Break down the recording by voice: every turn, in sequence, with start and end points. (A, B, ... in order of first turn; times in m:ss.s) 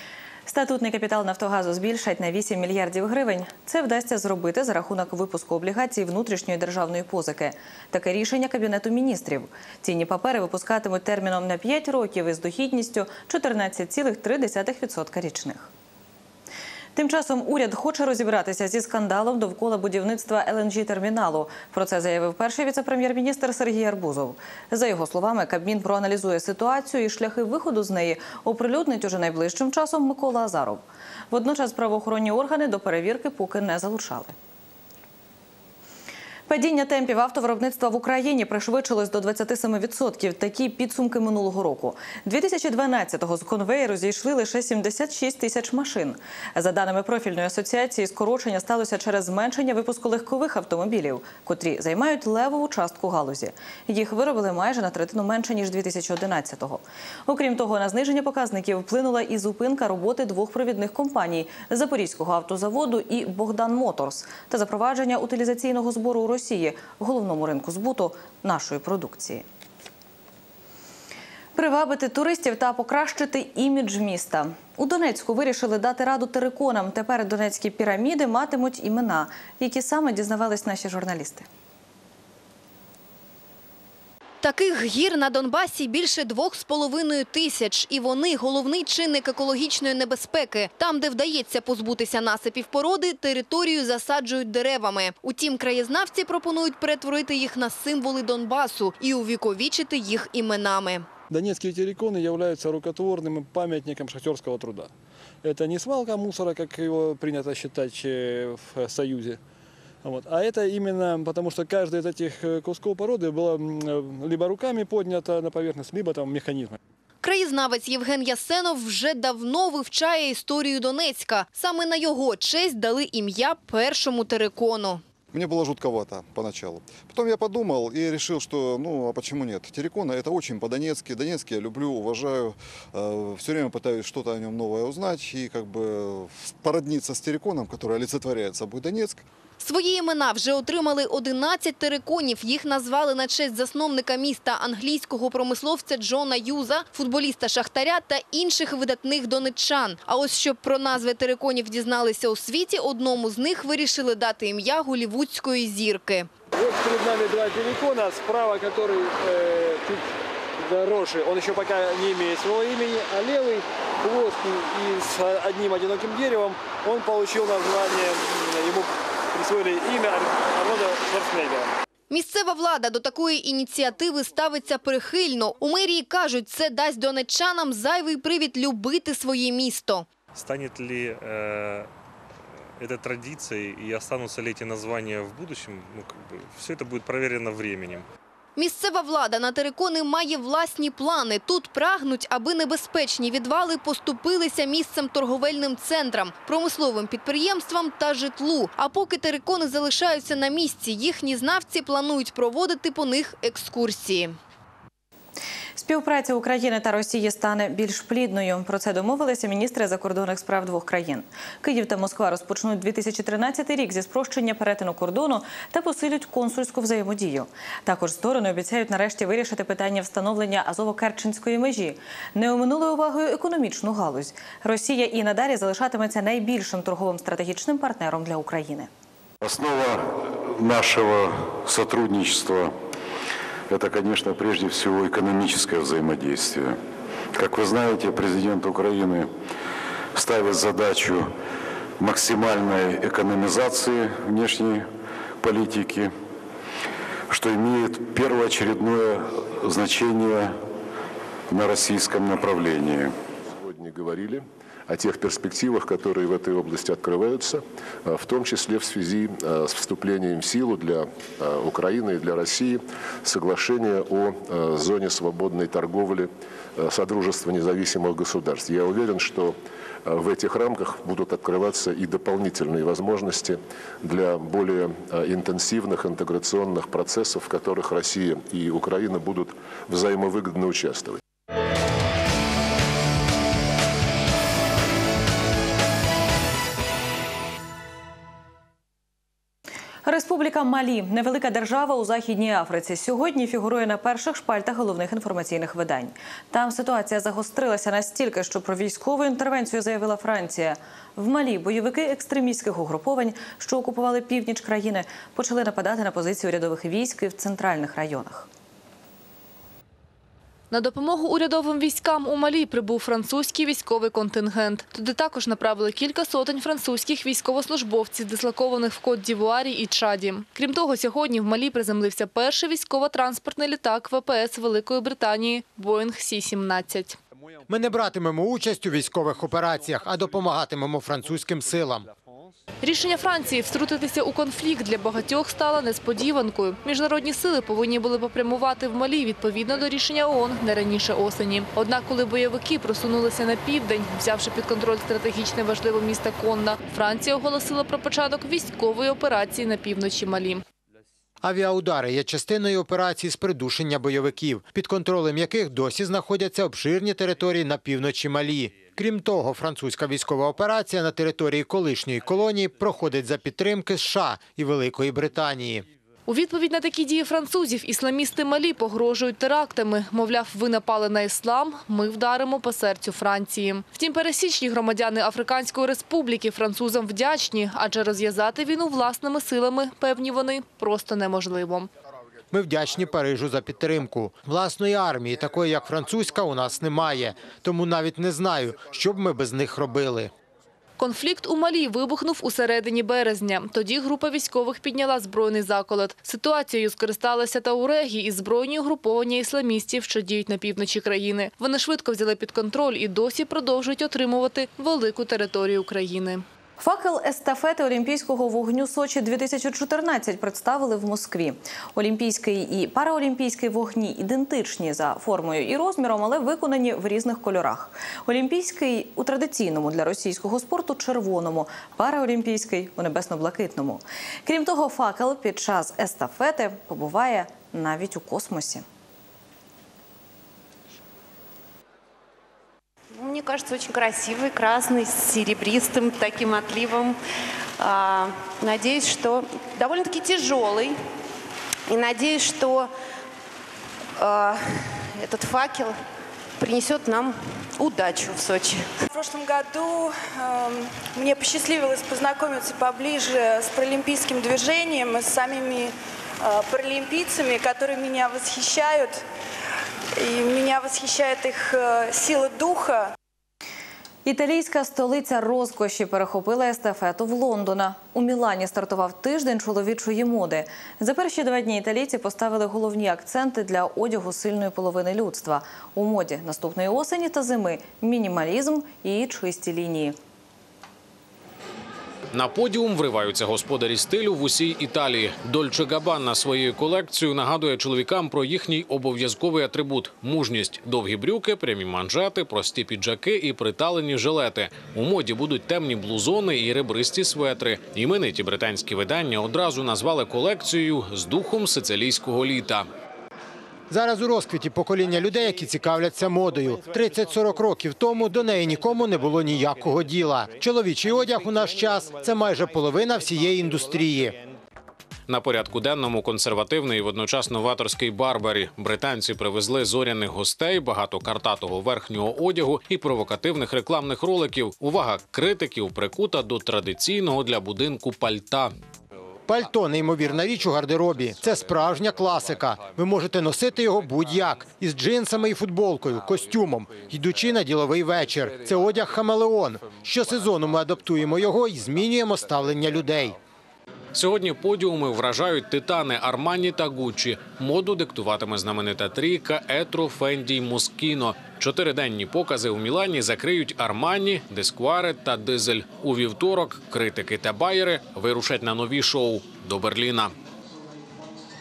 0:00.5-0:15.7 A
0:17.0-0:34.3 A
0:36.5-1:09.4 A
1:11.5-1:21.4 A
1:24.4-1:41.0 B
1:41.3-1:44.9 C
1:45.4-1:49.4 C
1:50.0-1:56.8 C
1:57.2-2:05.0 B
2:05.3-2:19.2 D
2:19.6-2:36.3 B
2:36.5-2:40.0 C
2:40.6-2:51.7 C
2:52.1-3:00.0 B
3:00.3-3:01.9 E
3:02.8-3:08.1 E
3:08.6-3:24.4 B
3:25.8-3:48.9 A
3:49.4-3:52.7 F
3:53.7-3:56.8 F
3:57.3-3:59.3 F
4:00.1-4:01.3 F
4:02.0-4:04.9 F
4:05.4-4:06.1 F
4:07.3-4:10.5 F
4:11.5-4:13.1 F
4:13.5-4:41.2 G
4:50.0-5:08.5 A
5:10.7-5:27.2 H
5:27.7-5:32.1 I
5:32.8-5:50.6 H
5:51.4-6:05.8 I
6:06.3-6:21.9 H
6:22.5-6:30.3 I
6:31.0-6:46.4 H
6:46.8-7:08.8 A
7:13.1-7:17.2 J
7:17.8-7:21.0 J
7:21.9-7:22.9 J
7:24.2-7:24.6 J
7:25.1-7:25.9 J
7:26.6-7:28.9 J
7:29.1-7:39.2 K
7:40.2-7:43.1 K
7:44.2-8:00.2 A
8:02.3-8:22.8 L
8:23.9-8:34.4 I
8:35.3-8:48.7 L
8:49.5-9:03.4 I
9:04.1-9:20.3 L